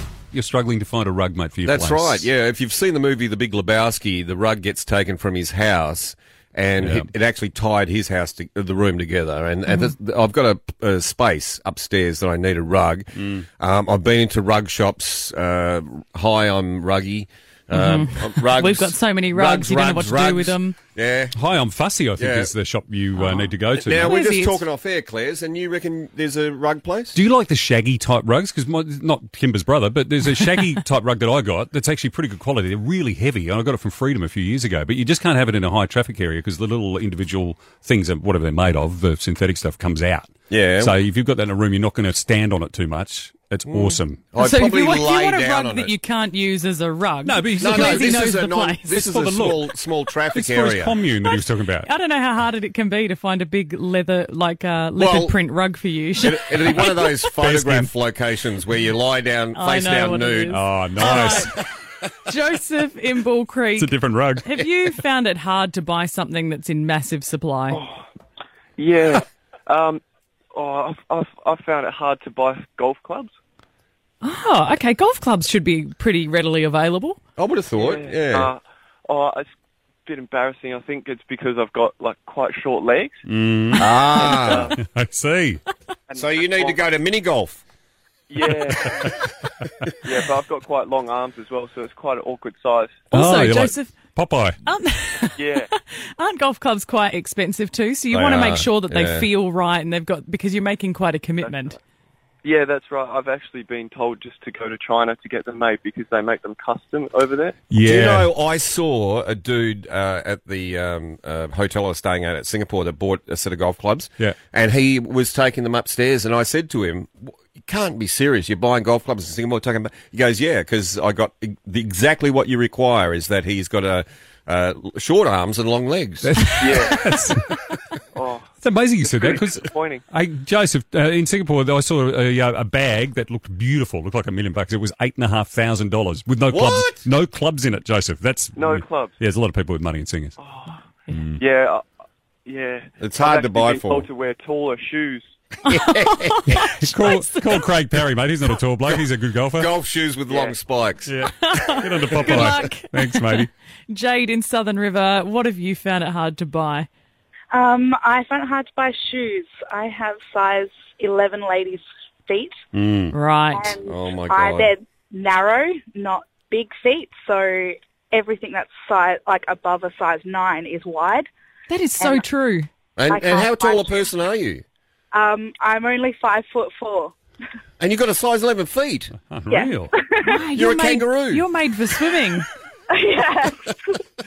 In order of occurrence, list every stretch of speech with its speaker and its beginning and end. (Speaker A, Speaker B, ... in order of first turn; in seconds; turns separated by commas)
Speaker A: 0.3-2.3, Speaker B: 1.6-21.3, Speaker A: 6.8-7.1, Speaker C: 17.7-20.8, Speaker A: 21.3-24.2, Speaker B: 22.2-22.5, Speaker C: 23.1-24.7, Speaker B: 23.8-27.2, Speaker A: 27.1-44.3, Speaker B: 40.5-41.0, Speaker B: 43.7-45.9, Speaker C: 44.4-49.1, Speaker A: 47.2-48.1, Speaker B: 47.6-51.0, Speaker A: 49.0-49.7, Speaker A: 50.3-51.9, Speaker C: 51.2-57.2, Speaker B: 55.0-55.4, Speaker B: 56.2-60.6, Speaker A: 57.3-58.0, Speaker C: 59.5-61.6, Speaker A: 60.5-61.6, Speaker C: 62.2-67.8, Speaker A: 63.8-64.5, Speaker D: 67.7-68.0, Speaker D: 68.8-70.0, Speaker D: 70.5-73.3, Speaker C: 74.2-77.2, Speaker B: 77.4-78.5, Speaker D: 77.7-79.5, Speaker D: 80.1-83.2, Speaker A: 83.3-83.9, Speaker B: 83.8-84.7, Speaker D: 84.0-84.8, Speaker A: 84.5-85.6, Speaker D: 86.1-87.0, Speaker B: 86.2-87.6, Speaker D: 88.3-89.2, Speaker D: 90.0-93.1, Speaker C: 93.1-94.0, Speaker A: 93.1-94.6, Speaker C: 94.6-101.8, Speaker D: 95.4-95.7, Speaker B: 98.1-99.3, Speaker D: 101.4-101.8, Speaker D: 102.4-107.6, Speaker A: 107.7-108.3, Speaker B: 107.8-126.4, Speaker A: 126.2-127.4, Speaker D: 126.6-127.3, Speaker D: 128.1-130.0, Speaker A: 128.6-140.3, Speaker B: 136.5-137.1, Speaker D: 138.6-139.2, Speaker D: 140.4-140.9, Speaker A: 141.1-141.4, Speaker D: 141.4-141.8, Speaker D: 142.5-145.3, Speaker B: 143.0-144.1, Speaker C: 145.6-147.6, Speaker B: 145.8-146.4, Speaker A: 146.8-149.7, Speaker B: 148.9-152.4, Speaker D: 150.3-150.6, Speaker A: 151.1-153.5, Speaker C: 151.4-156.9, Speaker E: 157.5-162.5, Speaker A: 162.7-163.2, Speaker C: 163.1-163.8, Speaker E: 163.5-171.3, Speaker B: 163.8-164.8, Speaker C: 171.7-172.7, Speaker E: 172.0-172.2, Speaker B: 173.0-174.6, Speaker E: 173.1-174.0, Speaker E: 175.1-177.1, Speaker B: 177.8-179.2, Speaker A: 179.2-179.9, Speaker E: 179.5-180.5, Speaker C: 180.2-182.5, Speaker B: 180.5-181.5, Speaker E: 182.9-184.0